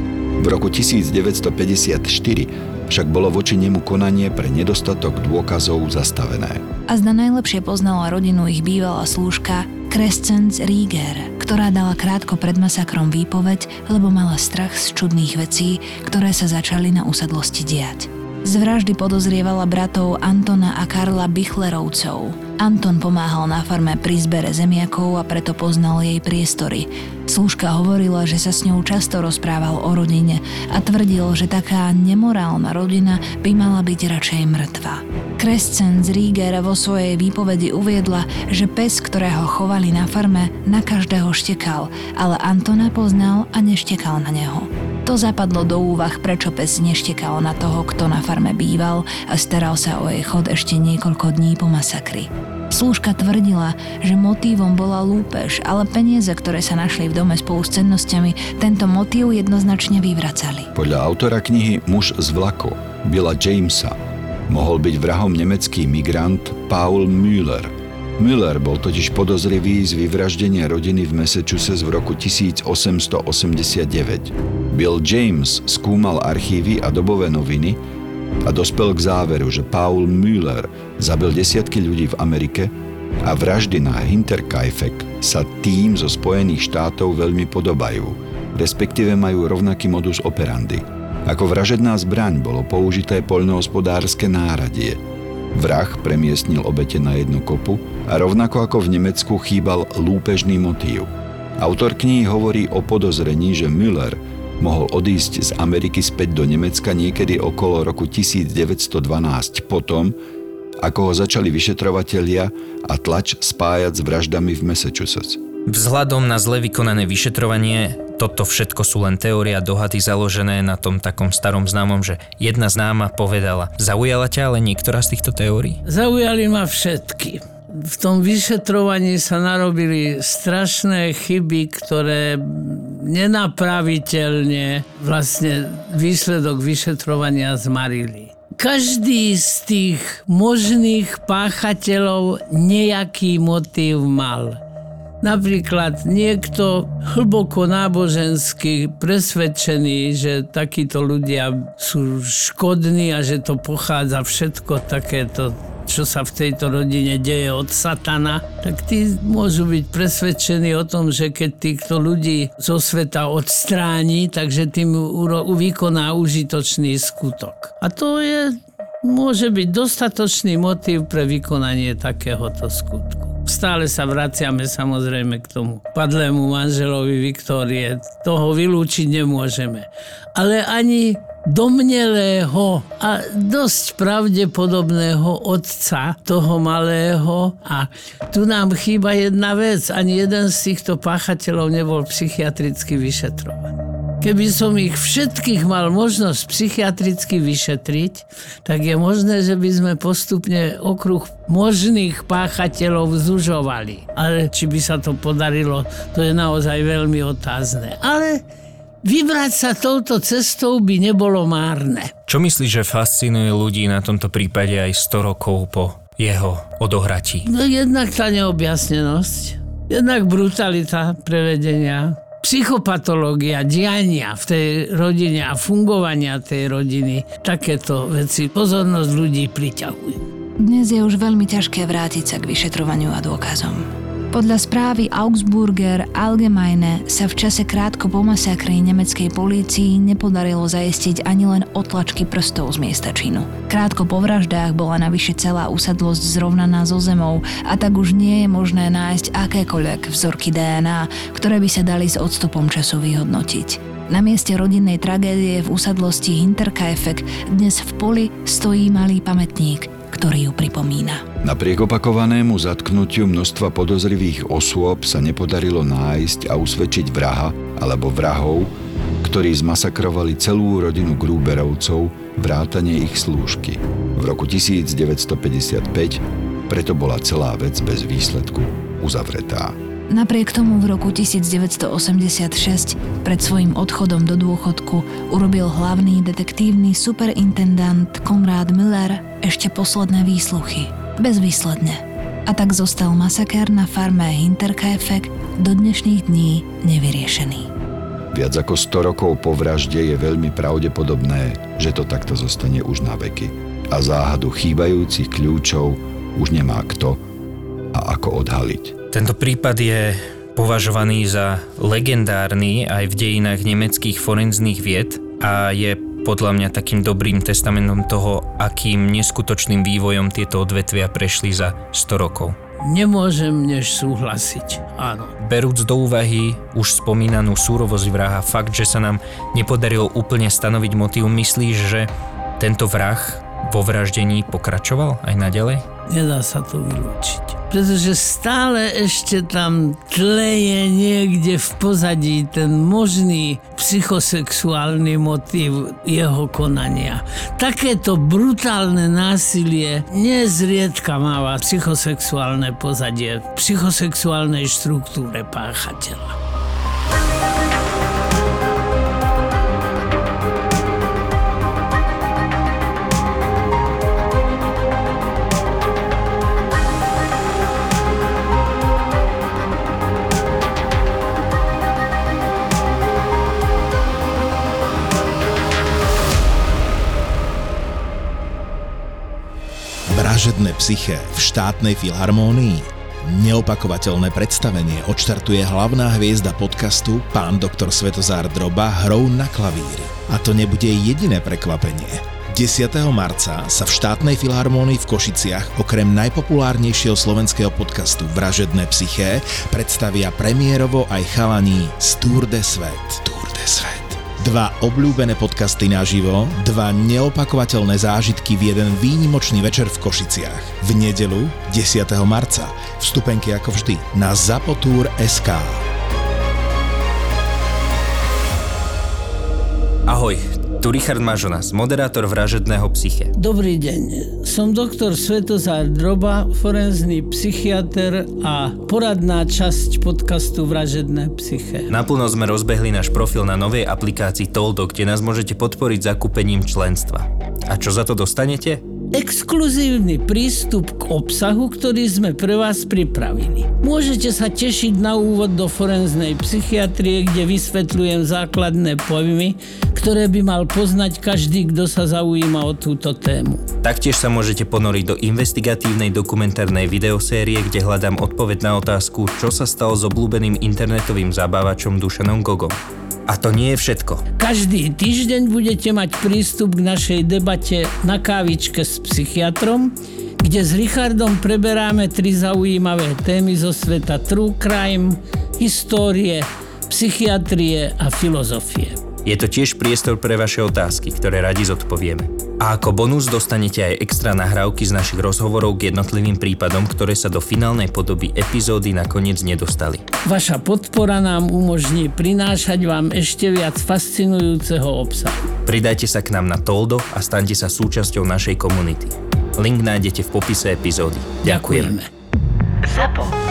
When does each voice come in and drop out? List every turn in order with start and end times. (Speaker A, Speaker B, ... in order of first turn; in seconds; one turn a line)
Speaker A: 0.4-6.6
Speaker B: 6.9-60.7
Speaker A: 60.7-64.0
Speaker A: 64.5-77.8
Speaker A: 78.4-82.7
Speaker A: 83.2-95.0
Speaker A: 95.5-110.1
Speaker A: 110.8-115.4
Speaker C: 115.7-125.8
Speaker D: 125.8-144.6
Speaker D: 145.2-208.4
Speaker D: 209.0-212.1
Speaker C: 212.3-217.5
Speaker D: 217.4-230.2
Speaker B: 230.6-261.2
Speaker A: 261.4-268.7
Speaker A: 269.2-279.8
Speaker B: 280.1-297.7
Speaker A: 298.3-307.2
Speaker A: 307.9-308.9
Speaker C: 309.1-322.6
Speaker D: 322.8-325.3
Speaker C: 325.4-335.8
Speaker D: 336.1-356.4
Speaker E: 380.1-415.8
Speaker C: 420.1-423.3
Speaker D: 423.4-431.9
Speaker C: 431.9-438.8
Speaker D: 439.1-453.6
Speaker C: 453.8-464.2
Speaker D: 464.4-479.0
Speaker C: 479.2-490.1
Speaker D: 490.2-495.5
Speaker C: 495.6-501.9
Speaker D: 501.4-502.1
Speaker D: 502.9-503.2